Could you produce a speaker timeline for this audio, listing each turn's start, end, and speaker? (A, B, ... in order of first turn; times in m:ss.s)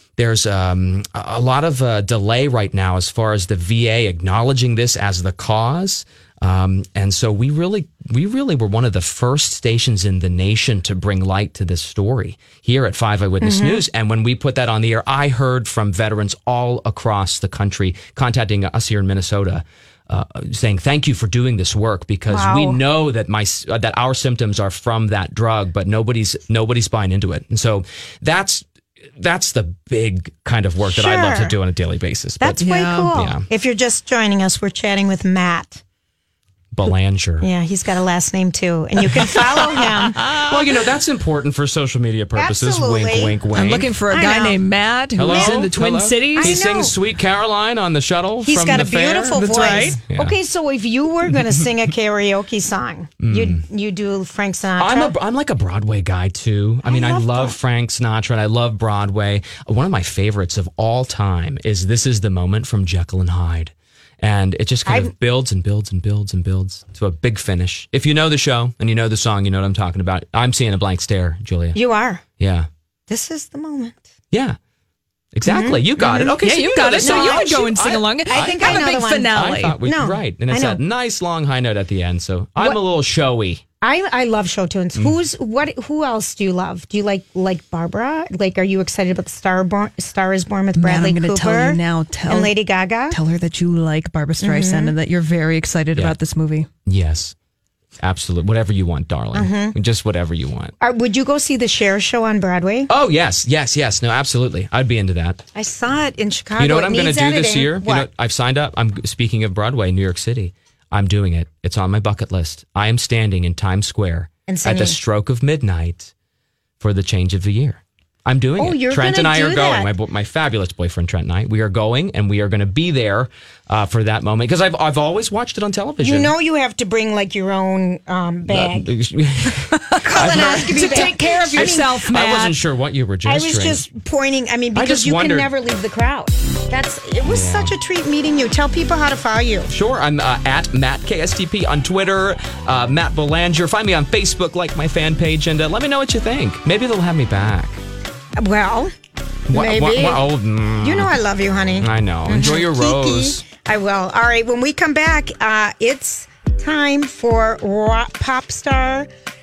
0:00.2-0:28.6 A
0:13.4-0:13.8 B
0:22.3-0:22.8 B
0:29.2-0:33.4 A
0:30.8-0:31.6 B
0:32.4-0:35.8 B
0:32.6-0:33.1 C
0:36.7-0:37.5 A
0:37.4-0:40.3 B
0:40.2-0:40.5 C
0:40.5-0:43.9 A
0:42.4-0:43.4 B
0:43.5-0:46.6 C
0:44.1-0:44.6 B
0:45.2-0:50.4 A
0:45.2-0:45.6 B
0:46.4-0:47.0 B
0:48.4-0:55.2 B
0:49.3-0:50.0 C
0:53.2-0:53.6 A
0:54.8-1:11.8 A
0:56.8-0:57.6 B
1:04.9-1:05.1 B
1:11.8-1:12.2 B
1:12.4-1:12.7 A
1:13.1-1:14.1 B
1:14.3-1:14.6 A
1:15.3-1:23.6 A
1:15.4-1:16.4 B
1:16.4-1:19.8 C
1:17.0-1:17.7 B
1:18.3-1:20.8 B
1:23.8-1:33.2 B
1:30.8-1:32.5 C
1:33.1-1:36.7 C
1:34.4-1:35.0 B
1:36.9-1:37.3 A
1:38.0-1:40.7 A
1:39.3-1:39.8 B
1:40.8-1:42.9 B
1:42.9-1:45.4 A
1:45.6-1:48.1 B
1:46.6-1:56.1 A
1:54.5-1:55.0 B
1:56.8-2:06.3 A
1:58.6-1:59.9 B
2:06.0-2:08.9 B
2:08.5-2:13.8 A
2:09.9-2:12.6 C
2:10.0-2:12.0 B
2:13.2-2:19.7 B
2:14.8-2:15.5 A
2:17.2-2:17.7 A
2:19.7-2:27.8 A
2:28.4-2:28.9 B
2:29.5-2:31.2 A
2:29.5-2:39.1 B
2:31.8-2:33.4 A